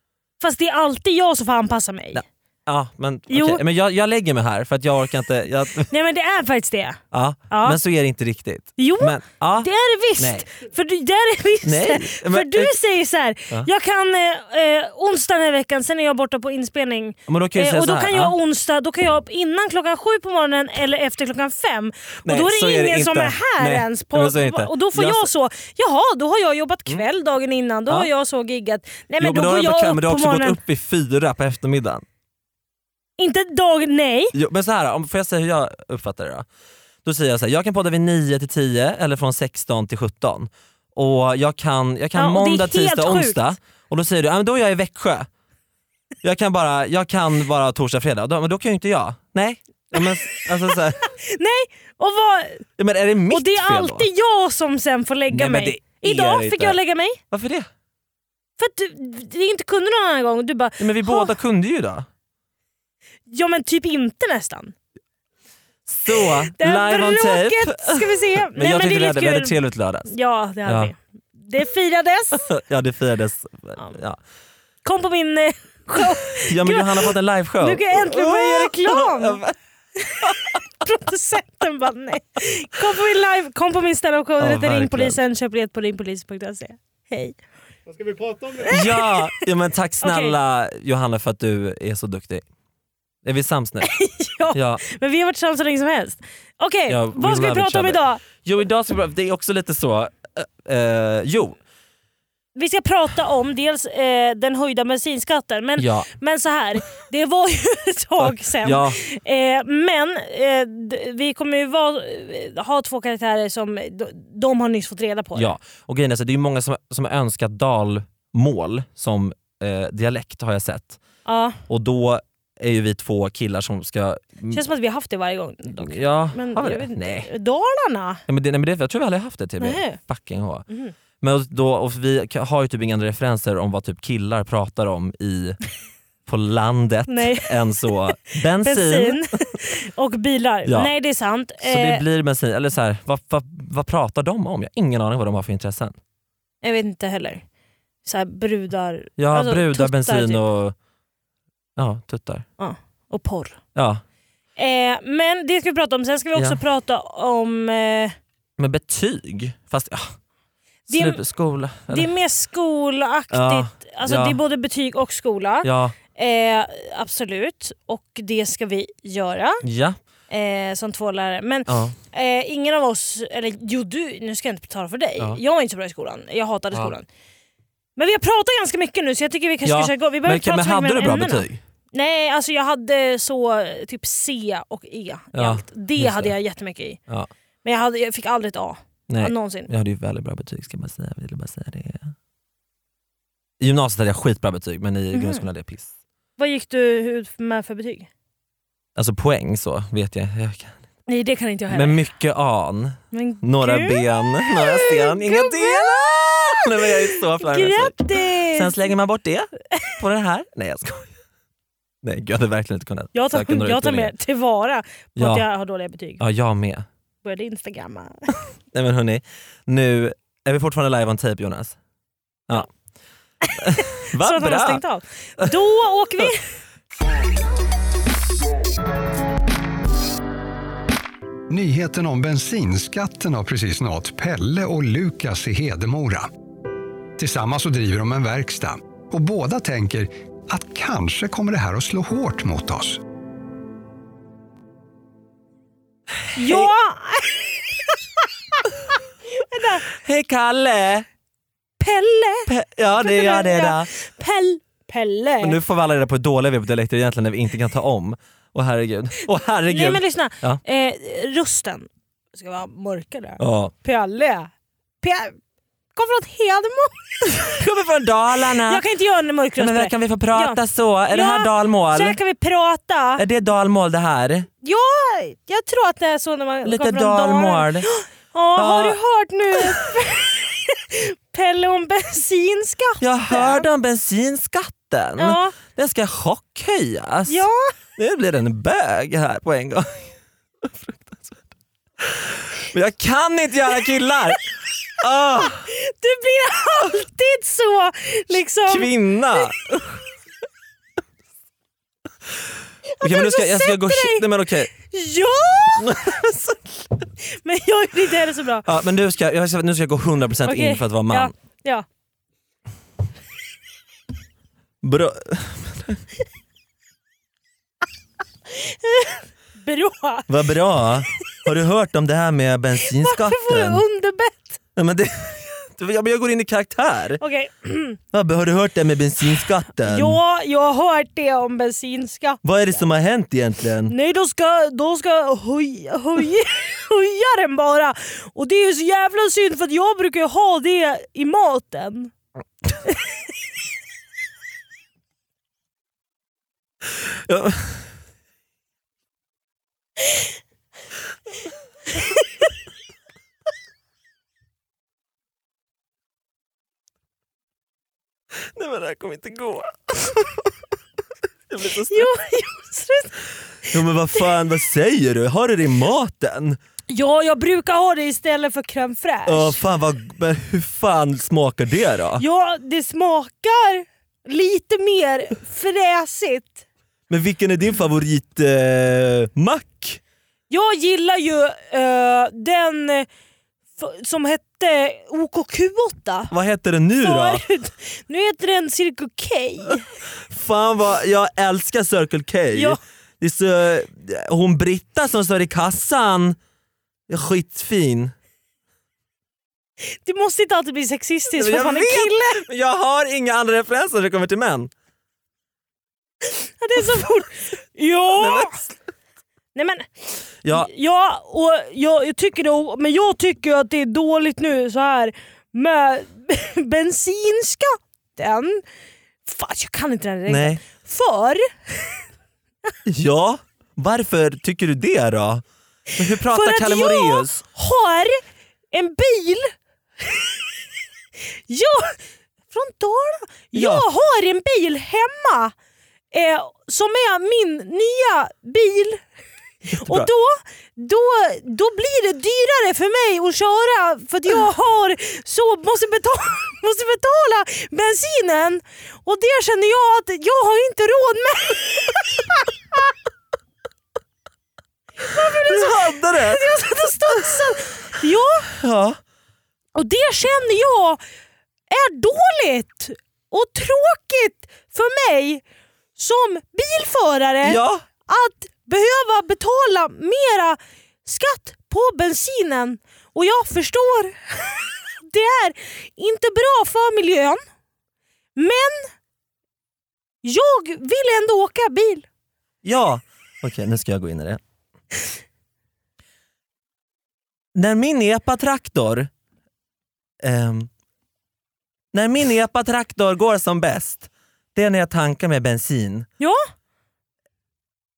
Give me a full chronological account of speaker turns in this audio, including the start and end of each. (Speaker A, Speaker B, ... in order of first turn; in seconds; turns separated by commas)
Speaker A: 0.4-2.2, Speaker B: 2.1-5.9, Speaker A: 3.3-3.6, Speaker A: 5.9-7.0, Speaker B: 7.1-10.5, Speaker A: 7.5-7.8, Speaker A: 8.8-30.6, Speaker B: 11.7-12.7, Speaker B: 17.3-18.3, Speaker B: 22.2-25.3, Speaker B: 29.2-32.0, Speaker A: 33.2-34.3, Speaker B: 34.3-36.5, Speaker B: 37.0-45.3, Speaker A: 42.2-43.5, Speaker B: 46.2-51.0, Speaker A: 50.0-52.6, Speaker B: 52.8-54.1, Speaker A: 53.3-57.2, Speaker B: 55.3-56.8, Speaker B: 57.3-57.7, Speaker A: 58.6-61.3, Speaker B: 60.8-62.1, Speaker A: 63.3-64.7, Speaker B: 65.9-70.1, Speaker A: 66.5-69.6, Speaker A: 70.1-72.5, Speaker B: 70.7-70.9, Speaker B: 72.4-74.2, Speaker A: 74.8-79.4, Speaker B: 76.4-79.5, Speaker A: 80.0-80.3, Speaker A: 80.8-87.4, Speaker B: 84.4-85.2, Speaker A: 88.5-89.4, Speaker B: 88.6-92.4, Speaker A: 90.0-90.4, Speaker B: 93.2-93.9, Speaker A: 93.9-98.2, Speaker B: 94.5-94.8, Speaker B: 96.9-101.6, Speaker A: 102.6-115.5, Speaker B: 105.8-106.1, Speaker B: 108.2-109.0, Speaker B: 115.3-121.0, Speaker A: 121.2-121.6, Speaker B: 121.7-124.6, Speaker A: 124.5-128.2, Speaker B: 125.8-127.3, Speaker B: 128.3-130.7, Speaker A: 129.6-130.0, Speaker B: 131.2-135.6, Speaker B: 136.3-139.2, Speaker A: 137.1-137.7, Speaker A: 138.6-142.0, Speaker B: 141.6-145.9, Speaker A: 146.6-147.4, Speaker A: 148.0-150.4, Speaker B: 149.2-150.7, Speaker B: 151.8-152.5, Speaker A: 152.6-153.6, Speaker B: 153.8-154.0, Speaker A: 154.6-158.2, Speaker B: 158.6-160.2, Speaker B: 160.9-162.1, Speaker A: 160.9-161.2, Speaker A: 161.9-169.6, Speaker B: 163.3-164.4, Speaker B: 165.6-166.0, Speaker B: 169.6-170.0, Speaker A: 170.3-177.1, Speaker B: 171.7-172.0, Speaker A: 178.0-187.0, Speaker B: 179.7-181.6, Speaker B: 185.3-186.3, Speaker A: 187.6-189.7, Speaker B: 189.1-192.1, Speaker B: 193.6-195.9, Speaker A: 195.1-195.4, Speaker A: 196.4-198.1, Speaker B: 199.0-200.8, Speaker A: 201.1-202.0, Speaker B: 201.7-211.1, Speaker A: 203.1-208.8, Speaker B: 212.0-214.1, Speaker A: 213.1-216.2, Speaker B: 215.2-215.4, Speaker B: 216.2-216.9, Speaker A: 217.2-218.3, Speaker B: 218.7-221.8, Speaker A: 223.4-226.5, Speaker B: 223.6-224.8, Speaker C: 231.5-236.3, Speaker C: 237.2-243.0, Speaker B: 246.2-246.7, Speaker A: 246.4-247.9, Speaker A: 249.4-249.8, Speaker B: 249.9-251.1, Speaker A: 251.8-252.5, Speaker B: 252.5-253.9, Speaker A: 253.0-255.6, Speaker B: 255.4-260.6, Speaker A: 259.7-264.5, Speaker B: 263.4-263.7, Speaker A: 265.0-265.4, Speaker A: 265.9-267.6, Speaker B: 267.4-268.8, Speaker A: 268.6-270.6, Speaker B: 269.6-272.2, Speaker A: 271.1-273.2, Speaker B: 273.2-274.5, Speaker A: 274.6-283.7, Speaker B: 276.6-277.9, Speaker B: 278.6-279.0, Speaker B: 279.6-279.8, Speaker B: 283.0-287.4, Speaker A: 285.2-285.6, Speaker A: 287.3-287.7, Speaker B: 288.0-290.1, Speaker B: 290.6-291.4, Speaker B: 292.0-295.7, Speaker A: 295.6-299.5, Speaker B: 298.7-300.0, Speaker A: 302.9-304.2, Speaker B: 303.0-304.7, Speaker A: 304.8-305.9, Speaker B: 305.8-306.7, Speaker A: 307.3-308.7, Speaker B: 308.6-311.3, Speaker A: 310.5-311.9, Speaker B: 314.8-316.0, Speaker A: 318.6-320.3, Speaker B: 320.3-323.8, Speaker A: 322.9-324.6, Speaker B: 324.8-327.2, Speaker A: 327.2-328.0, Speaker B: 328.1-330.2, Speaker A: 329.8-332.4, Speaker B: 332.4-333.9, Speaker A: 333.9-342.1, Speaker B: 347.3-347.8, Speaker B: 358.5-360.3, Speaker B: 361.5-362.1, Speaker A: 361.9-363.2, Speaker B: 363.7-366.6, Speaker A: 366.9-369.6, Speaker B: 369.3-372.2, Speaker A: 372.2-376.6, Speaker B: 377.1-380.0, Speaker A: 380.5-383.1, Speaker A: 383.8-386.3, Speaker B: 386.3-387.4, Speaker A: 387.0-389.9, Speaker B: 390.3-396.4, Speaker A: 392.5-392.8, Speaker B: 397.1-398.1, Speaker A: 400.0-402.4, Speaker B: 401.4-404.7, Speaker A: 406.2-408.6, Speaker B: 408.1-408.7, Speaker A: 409.6-418.6, Speaker A: 419.3-422.0, Speaker B: 420.3-420.6, Speaker B: 422.9-425.4, Speaker B: 425.9-427.4, Speaker A: 426.3-430.4, Speaker A: 431.5-432.0, Speaker A: 432.5-435.5, Speaker B: 433.5-433.9, Speaker A: 436.1-439.0, Speaker B: 439.7-440.1, Speaker A: 439.7-452.2, Speaker A: 455.0-458.5, Speaker B: 455.5-456.5, Speaker B: 457.1-457.4, Speaker B: 458.5-459.0, Speaker A: 459.8-461.0, Speaker A: 461.7-465.4, Speaker A: 466.0-477.4, Speaker B: 467.4-467.8, Speaker A: 478.4-478.9, Speaker A: 480.2-482.1, Speaker B: 482.6-484.4, Speaker B: 487.6-489.1, Speaker B: 490.2-490.7, Speaker B: 491.9-496.1